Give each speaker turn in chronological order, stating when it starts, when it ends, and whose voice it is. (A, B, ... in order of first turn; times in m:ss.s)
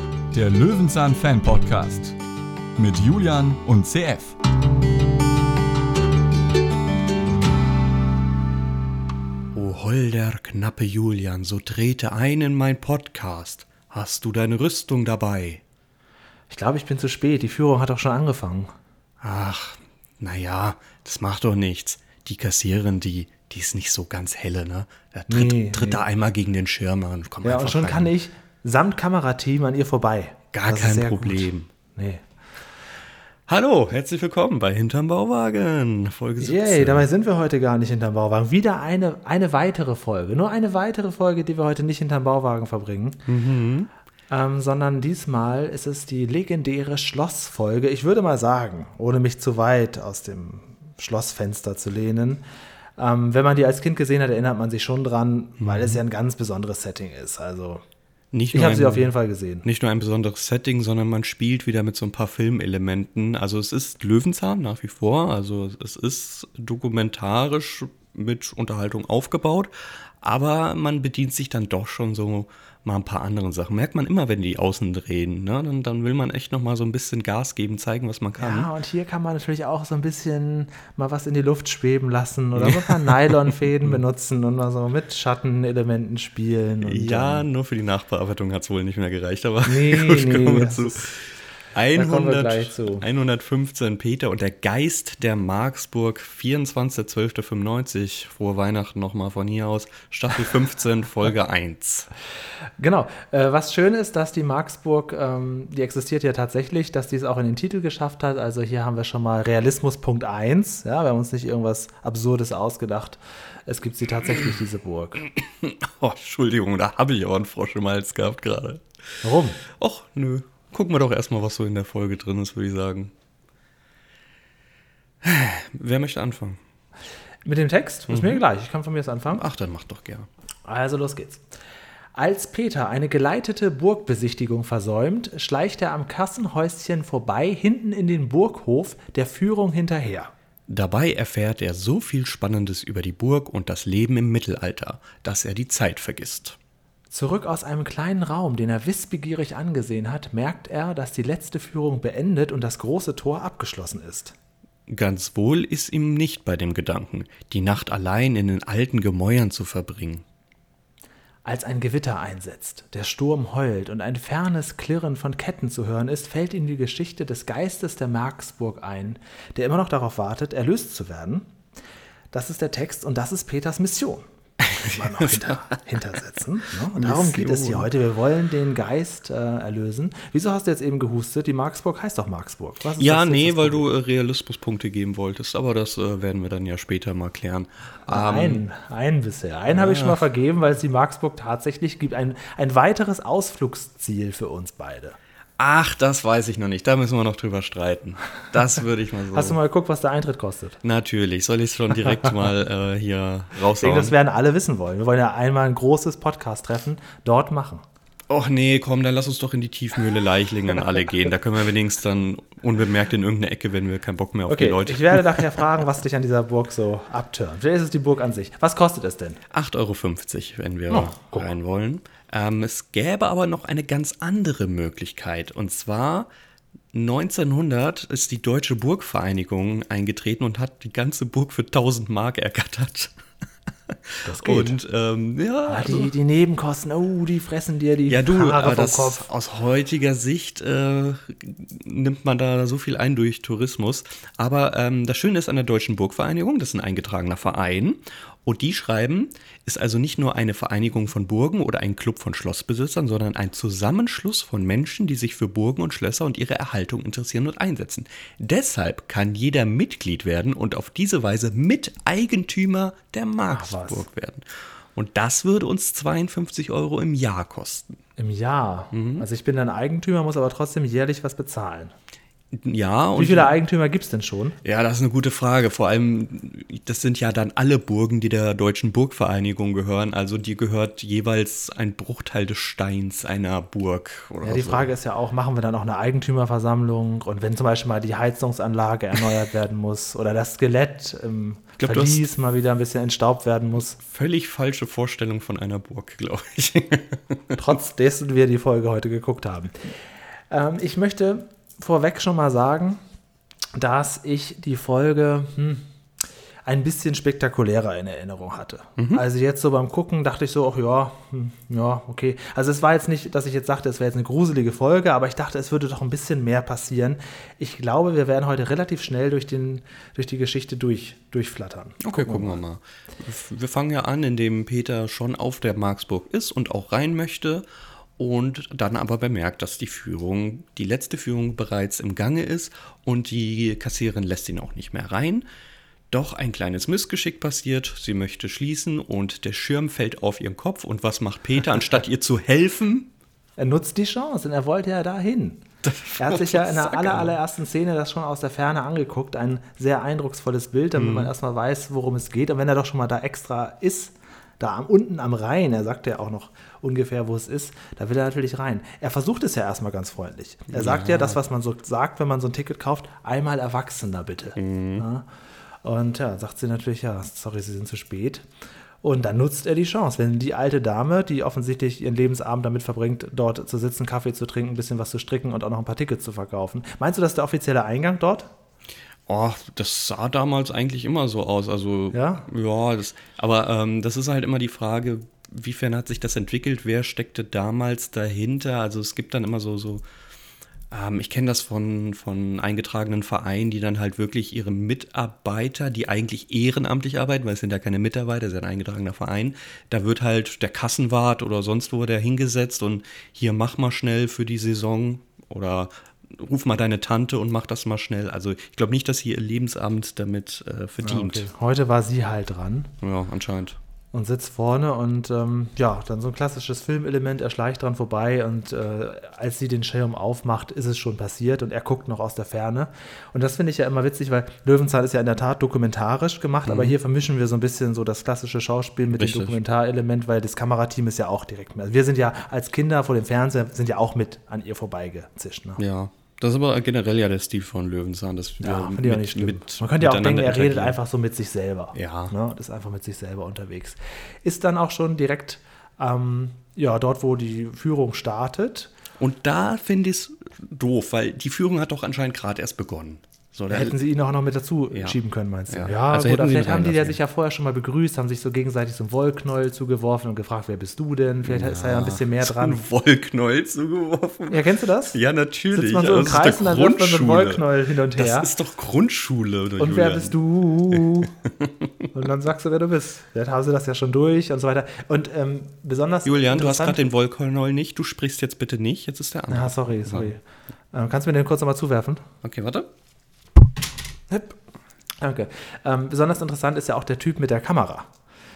0:00.3-0:02.2 A
0:02.8-0:04.4 A
0:09.5-0:15.6 B
0:16.5-0:18.7 C
0:19.2-0:28.1 B
0:25.3-0:26.0 C
0:27.4-0:32.2 C
0:30.5-0:31.7 B
0:33.5-0:37.0 B
0:36.4-0:43.2 C
0:43.2-0:43.9 B
0:44.3-0:52.4 C
0:53.0-0:57.8 C
0:55.6-0:56.0 B
0:58.3-0:59.1 B
0:58.5-0:59.6 C
0:59.6-1:18.7 B
1:18.4-1:27.4 C
1:22.6-1:23.5 B
1:26.8-1:42.1 B
1:29.6-1:31.1 C
1:31.9-1:33.0 C
1:42.8-1:55.2 C
1:55.4-1:58.8 B
1:59.2-1:59.6 C
1:59.7-2:03.1 B
2:05.2-2:06.6 B
2:07.4-2:09.4 C
2:08.1-2:08.4 B
2:09.3-2:10.3 B
2:10.7-2:11.4 C
2:12.1-2:20.3 C
2:20.7-2:26.6 B
2:27.1-2:34.3 C
2:34.9-2:40.2 B
2:41.4-2:51.5 C
2:52.3-3:03.8 C
2:54.6-2:55.8 B
2:56.9-2:57.9 B
3:03.0-3:08.6 B
3:08.1-3:15.2 C
3:09.7-3:10.2 B
3:15.6-3:19.6 B
3:19.3-3:20.8 C
3:20.8-3:24.1 B
3:23.8-3:27.8 C
3:28.3-3:35.6 B
3:34.5-3:39.4 C
3:39.5-3:46.3 B
3:40.9-3:41.5 C
3:46.9-3:53.1 B
3:53.9-3:56.1 B
3:54.2-3:54.8 C
3:55.7-3:59.2 C
3:58.1-4:27.9 B
4:23.5-4:24.0 C
4:28.2-4:31.9 C
4:28.9-4:29.2 B
4:32.5-4:33.6 B
4:33.1-4:34.6 C
4:34.6-4:44.9 B
4:44.4-4:54.0 C
4:51.8-4:52.2 B
4:54.0-4:57.6 B
4:57.6-4:59.9 C
5:00.5-5:03.0 C
5:03.8-5:05.8 C
5:06.6-5:22.6 C
5:09.0-5:09.2 B
5:22.0-5:27.6 B
5:28.2-5:35.4 B
5:36.1-5:43.1 B
5:43.6-5:45.6 C
5:45.8-5:47.4 B
5:46.2-6:05.2 C
5:51.0-5:51.3 B
6:00.7-6:01.4 B
6:04.6-6:05.0 B
6:05.8-6:08.4 C
6:09.0-6:18.5 C
6:19.3-6:30.0 B
6:22.1-6:22.4 C
6:30.9-6:51.5 B
6:51.0-6:52.9 C
6:53.0-6:53.8 B
6:54.1-7:15.8 C
7:06.6-7:07.0 B
7:09.2-7:09.6 B
7:15.8-7:21.0 B
7:18.6-7:28.9 C
7:21.9-7:22.3 B
7:29.2-7:34.0 B
7:33.7-7:42.8 C
7:35.7-7:37.2 B
7:41.4-7:50.3 B
7:44.5-7:45.2 C
7:45.7-7:48.5 C
7:49.8-7:51.3 C
7:50.9-7:52.1 B
7:52.1-7:57.0 C
7:56.2-8:00.3 B
7:59.5-8:00.4 C
8:00.9-8:02.2 C
8:02.4-8:02.9 B
8:04.3-8:04.6 C
8:05.2-8:08.1 C